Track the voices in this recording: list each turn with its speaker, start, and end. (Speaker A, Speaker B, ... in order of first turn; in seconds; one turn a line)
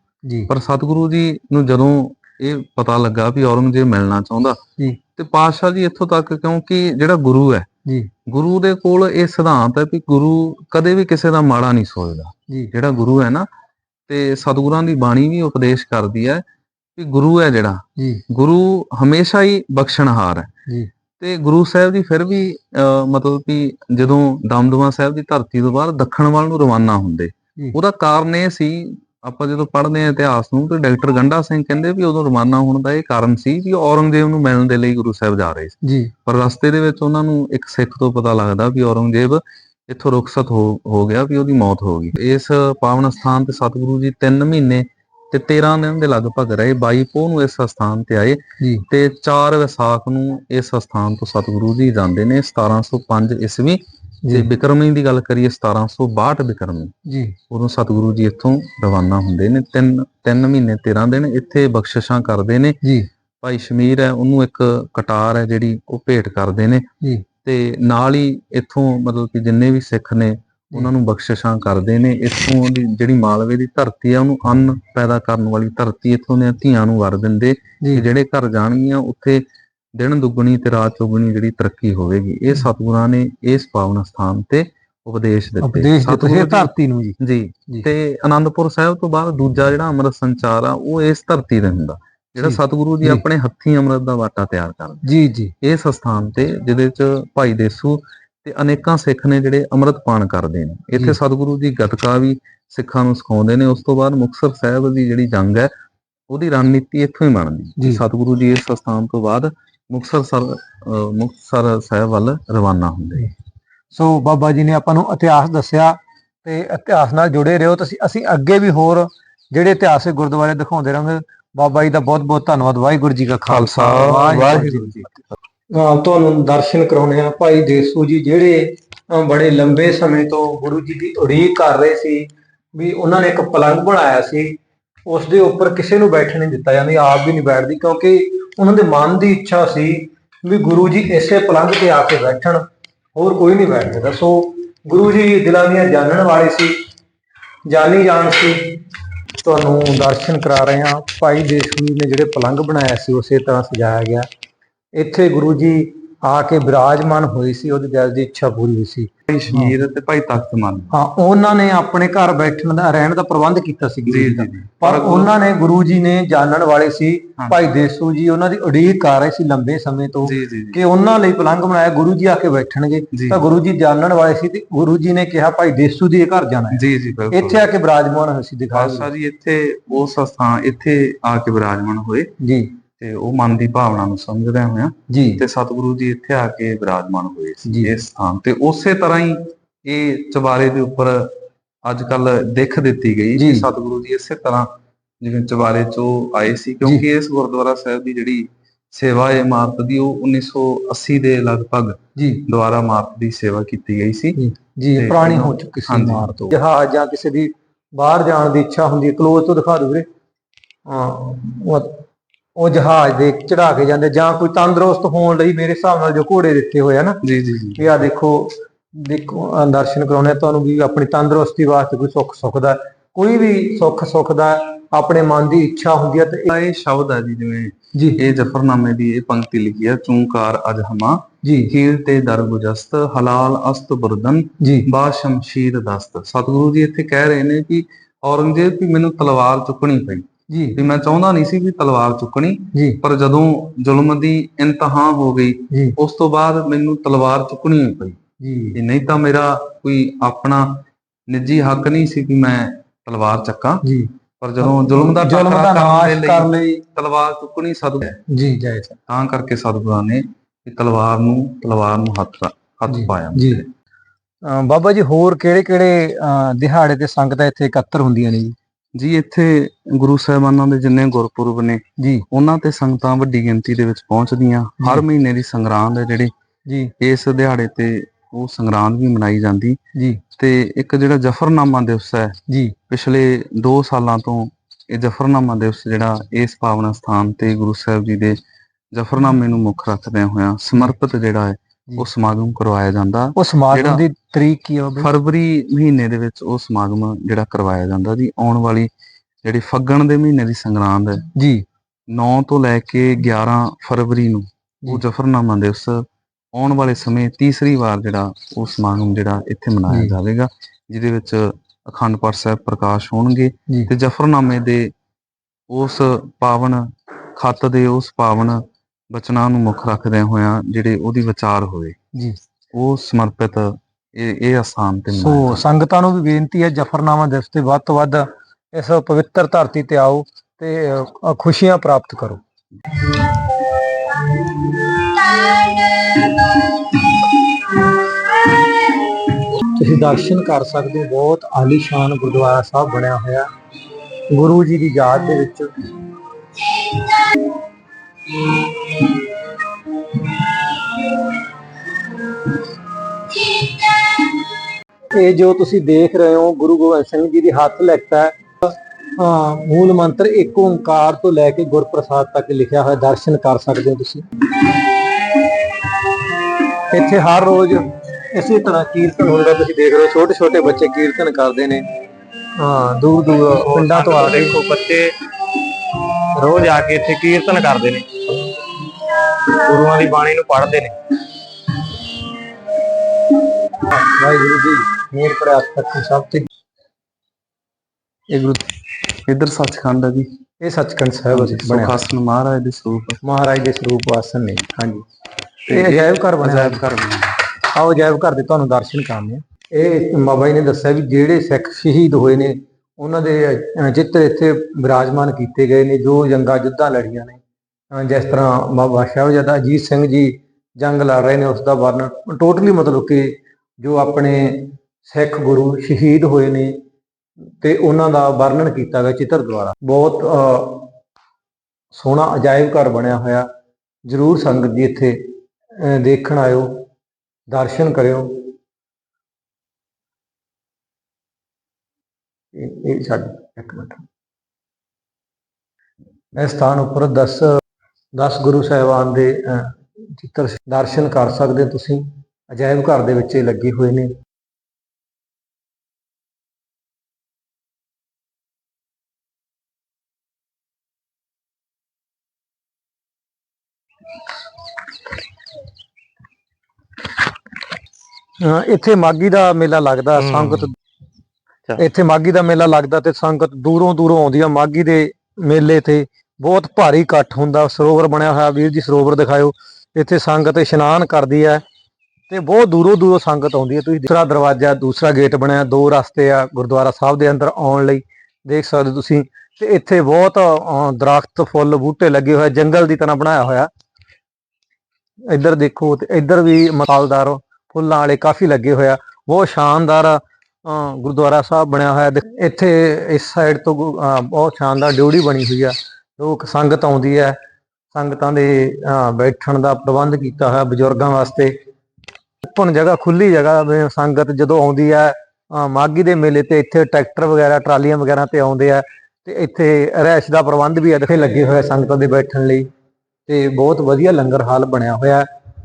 Speaker A: 0.5-4.6
Speaker A: 5.2-7.7
Speaker A: 8.3-13.5
Speaker A: 14.1-16.4
Speaker A: 17.0-20.5
Speaker B: 18.0-18.2
Speaker A: 21.2-56.9
Speaker B: 35.8-36.1
Speaker B: 48.6-48.9
Speaker B: 57.1-57.4
Speaker A: 57.5-62.8
Speaker B: 62.8-63.1
Speaker A: 63.4-66.9
Speaker A: 67.4-79.4
Speaker A: 80.0-95.0
Speaker B: 85.6-87.2
Speaker B: 92.4-93.2
Speaker B: 95.0-95.5
Speaker A: 95.6-105.7
Speaker A: 106.3-113.3
Speaker B: 113.9-125.1
Speaker A: 123.5-125.3
Speaker B: 125.7-142.6
Speaker B: 143.2-146.8
Speaker B: 147.7-148.6
Speaker B: 149.3-154.3
Speaker B: 154.9-159.8
Speaker A: 159.3-160.9
Speaker B: 160.9-179.1
Speaker A: 164.1-165.3
Speaker A: 170.2-170.8
Speaker A: 173.1-173.4
Speaker A: 176.7-177.7
Speaker A: 178.7-182.3
Speaker B: 182.4-182.7
Speaker A: 183.0-191.3
Speaker B: 185.1-185.4
Speaker B: 187.7-187.9
Speaker A: 191.8-194.7
Speaker B: 193.4-193.7
Speaker A: 195.2-204.4
Speaker B: 202.2-202.4
Speaker B: 204.4-210.1
Speaker A: 204.9-206.3
Speaker B: 210.9-212.0
Speaker B: 212.6-217.2
Speaker A: 217.2-218.0
Speaker B: 217.8-226.5
Speaker A: 226.5-248.2
Speaker B: 227.9-228.2
Speaker B: 231.4-231.7
Speaker B: 234.6-234.9
Speaker B: 240.5-240.8
Speaker B: 242.7-243.0
Speaker B: 245.7-246.0
Speaker B: 248.4-248.8
Speaker A: 248.8-253.8
Speaker B: 253.8-254.1
Speaker A: 254.4-258.2
Speaker B: 254.6-256.8
Speaker B: 258.3-259.0
Speaker A: 259.1-263.7
Speaker B: 262.9-263.6
Speaker B: 264.4-268.6
Speaker A: 269.0-276.3
Speaker B: 272.0-272.3
Speaker B: 276.7-276.9
Speaker A: 277.0-279.8
Speaker B: 280.0-280.2
Speaker A: 280.4-282.4
Speaker B: 282.5-282.8
Speaker A: 282.9-288.4
Speaker A: 288.9-294.0
Speaker B: 293.4-295.1
Speaker A: 295.0-298.9
Speaker A: 299.4-301.3
Speaker B: 301.4-301.6
Speaker A: 302.1-314.9
Speaker B: 309.9-310.2
Speaker A: 315.7-322.0
Speaker A: 322.7-325.6
Speaker B: 325.1-332.4
Speaker B: 333.1-338.7
Speaker B: 339.7-343.5
Speaker B: 344.3-345.9
Speaker B: 346.6-347.2
Speaker B: 348.3-349.2
Speaker B: 350.0-351.2
Speaker B: 353.4-353.8
Speaker B: 355.1-364.8
Speaker B: 366.9-371.9
Speaker B: 372.6-374.8
Speaker C: 373.8-375.0
Speaker A: 373.9-374.4
Speaker C: 376.4-378.1
Speaker B: 376.5-376.9
Speaker C: 379.7-380.9
Speaker B: 383.7-386.5
Speaker A: 388.3-388.7
Speaker A: 389.3-390.3
Speaker B: 390.6-392.0
Speaker A: 391.3-393.2
Speaker B: 393.2-395.0
Speaker B: 395.7-396.8
Speaker A: 395.7-397.4
Speaker B: 397.6-407.4
Speaker B: 407.9-416.8
Speaker B: 417.6-420.9
Speaker B: 421.9-423.5
Speaker B: 424.1-425.2
Speaker B: 425.8-426.8
Speaker B: 427.5-428.5
Speaker B: 432.5-434.1
Speaker B: 436.3-437.4
Speaker B: 438.1-444.1
Speaker B: 458.4-460.8
Speaker B: 461.8-471.6
Speaker B: 472.3-483.7
Speaker B: 485.3-497.4
Speaker B: 497.9-501.5
Speaker B: 502.4-512.7
Speaker B: 513.3-515.3